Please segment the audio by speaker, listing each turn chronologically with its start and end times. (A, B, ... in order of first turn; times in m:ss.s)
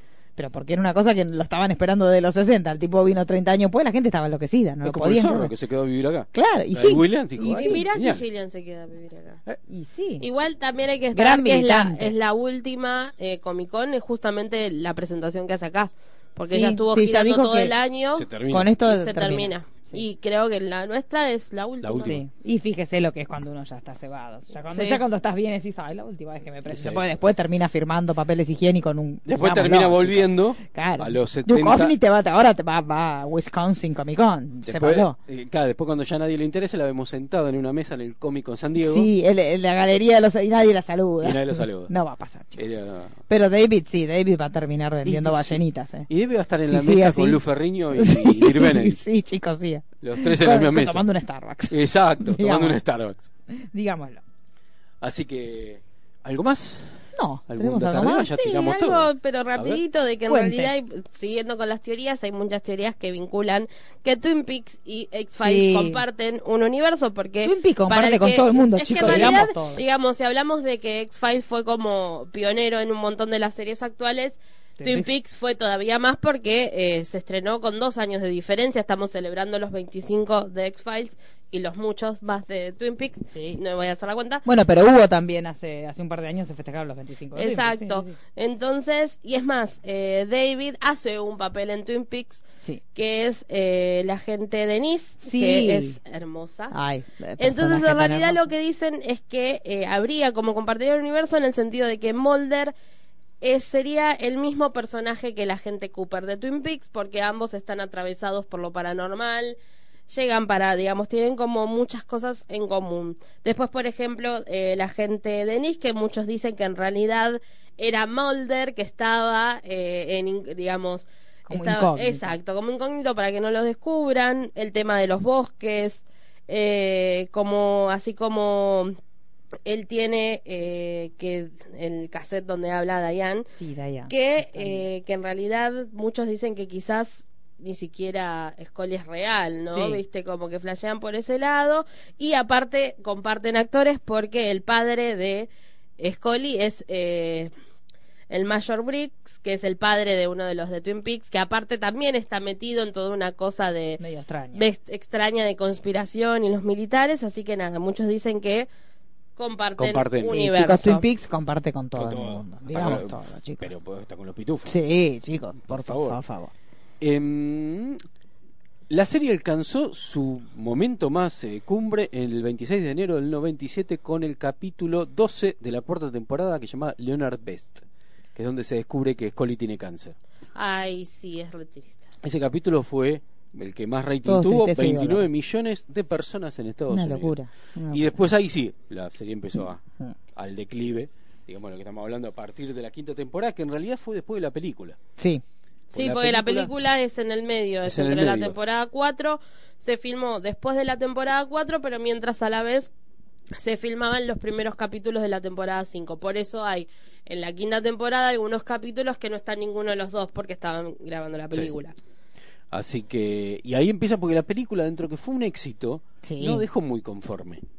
0:00.4-0:05.5 A
0:04.8-0:08.2 B
0:06.3-0:07.8 A
0:07.4-0:09.4 C
0:09.7-0:10.2 A
0:10.2-0:18.3 C
0:11.1-0:12.1 A
0:16.5-0:17.7 A
0:18.1-0:18.8 B
0:18.5-0:20.0 A
0:18.8-0:22.2 C
0:21.8-0:22.2 B
0:22.0-0:35.1 A
0:24.7-0:25.0 C
0:26.7-0:27.0 B
0:29.3-0:31.9 B
0:34.6-0:39.1 B
0:38.8-0:42.6 A
0:41.2-0:41.9 B
0:42.6-0:43.2 B
0:43.3-0:46.1 A
0:45.0-0:49.0 B
0:46.7-0:47.4 A
0:48.0-0:52.8 A
0:50.0-0:51.1 B
0:51.7-0:53.3 B
0:53.6-0:54.2 A
0:55.0-0:57.0 B
0:57.2-0:58.3 A
0:57.5-0:59.8 B
0:58.2-1:24.4 C
1:00.3-1:00.7 A
1:05.4-1:06.0 A
1:07.4-1:09.8 A
1:09.0-1:09.4 B
1:14.8-1:15.1 A
1:23.3-1:23.6 A
1:24.4-1:28.2 A
1:27.3-1:32.4 C
1:32.9-1:36.7 C
1:35.2-1:36.0 A
1:36.7-1:38.4 A
1:37.4-1:42.7 C
1:43.4-1:49.6 C
1:50.1-2:09.0 C
2:01.5-2:02.4 A
2:09.6-2:13.5 C
2:13.6-2:14.9 A
2:14.1-2:27.5 C
2:19.7-2:20.0 A
2:28.3-2:34.0 C
2:34.0-2:34.7 A
2:34.5-2:38.7 C
2:39.4-2:41.0 C
2:39.8-2:40.4 B
2:40.3-2:43.7 A
2:42.0-2:44.8 B
2:44.7-2:46.5 A
2:45.6-2:46.2 B
2:47.0-2:48.0 B
2:48.9-2:57.8 B
2:58.3-3:00.2 B
3:00.5-3:02.0 C
3:02.2-3:07.4 B
3:04.2-3:05.2 A
3:06.9-3:08.1 A
3:07.9-3:09.8 B
3:10.3-3:15.0 B
3:15.2-3:15.4 A
3:15.9-3:16.7 B
3:15.9-3:22.9 C
3:17.8-3:18.5 B
3:23.5-3:31.9 C
3:32.7-3:37.6 B
3:36.2-3:36.6 A